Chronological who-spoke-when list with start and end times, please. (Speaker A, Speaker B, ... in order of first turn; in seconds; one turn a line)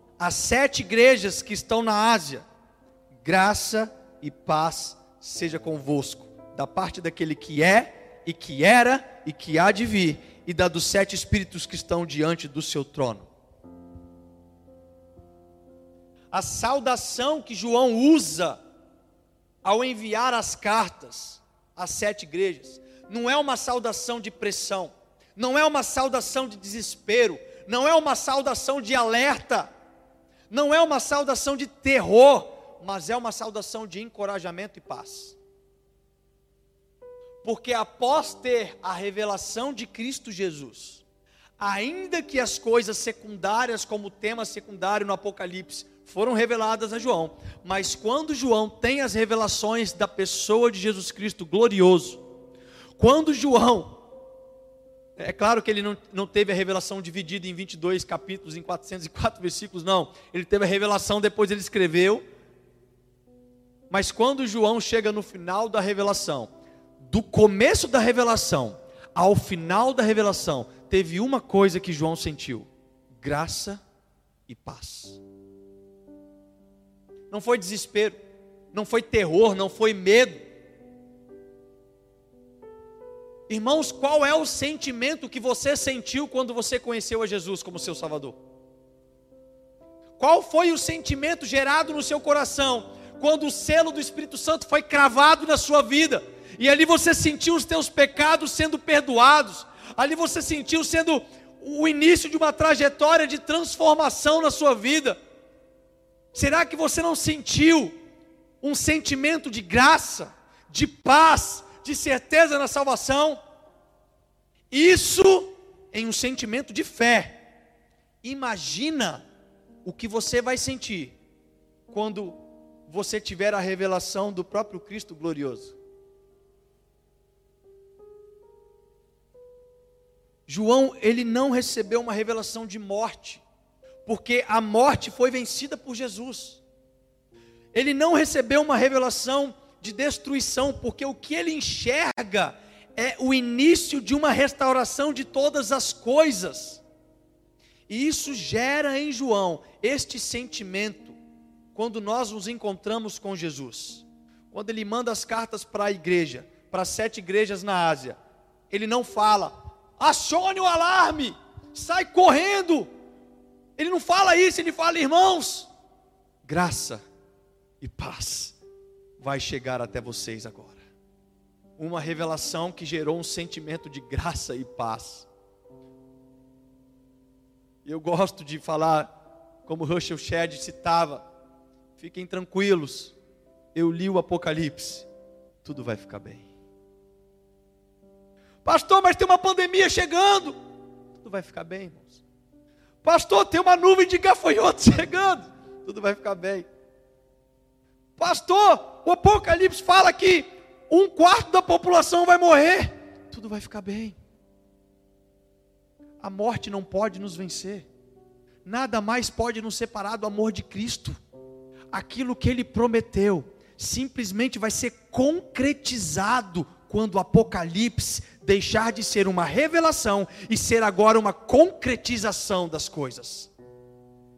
Speaker A: 0.2-2.4
Speaker A: 3.2-13.3
Speaker A: 16.3-18.6
Speaker A: 19.6-29.7
Speaker A: 30.5-35.4
Speaker A: 37.4-41.0
Speaker A: 41.6-52.2
Speaker A: 53.0-54.0
Speaker A: 55.2-62.2
Speaker A: 63.9-66.5
Speaker A: 67.0-72.7
Speaker A: 73.2-73.8
Speaker A: 74.5-75.2
Speaker A: 77.3-78.2
Speaker A: 78.7-80.4
Speaker A: 83.5-88.4
Speaker A: 90.2-105.2
Speaker A: 106.3-107.9
Speaker A: 108.6-113.4
Speaker A: 114.7-117.4
Speaker A: 118.2-119.2
Speaker A: 119.8-121.1
Speaker A: 121.9-122.4
Speaker A: 122.9-125.8
Speaker A: 130.5-133.4
Speaker A: 134.1-136.6
Speaker A: 137.7-146.8
Speaker A: 147.9-151.2
Speaker A: 151.7-158.2
Speaker A: 158.7-162.9
Speaker A: 163.8-165.7
Speaker A: 166.4-167.0
Speaker A: 167.8-168.6
Speaker A: 169.2-170.8
Speaker A: 171.8-175.3
Speaker A: 177.8-179.1
Speaker A: 179.7-181.2
Speaker A: 182.0-183.1
Speaker A: 183.7-185.1
Speaker A: 185.6-186.5
Speaker A: 188.6-190.6
Speaker A: 191.1-192.2
Speaker A: 193.0-196.7
Speaker A: 198.2-204.2
Speaker A: 206.2-207.9
Speaker A: 208.6-211.2
Speaker A: 211.9-223.5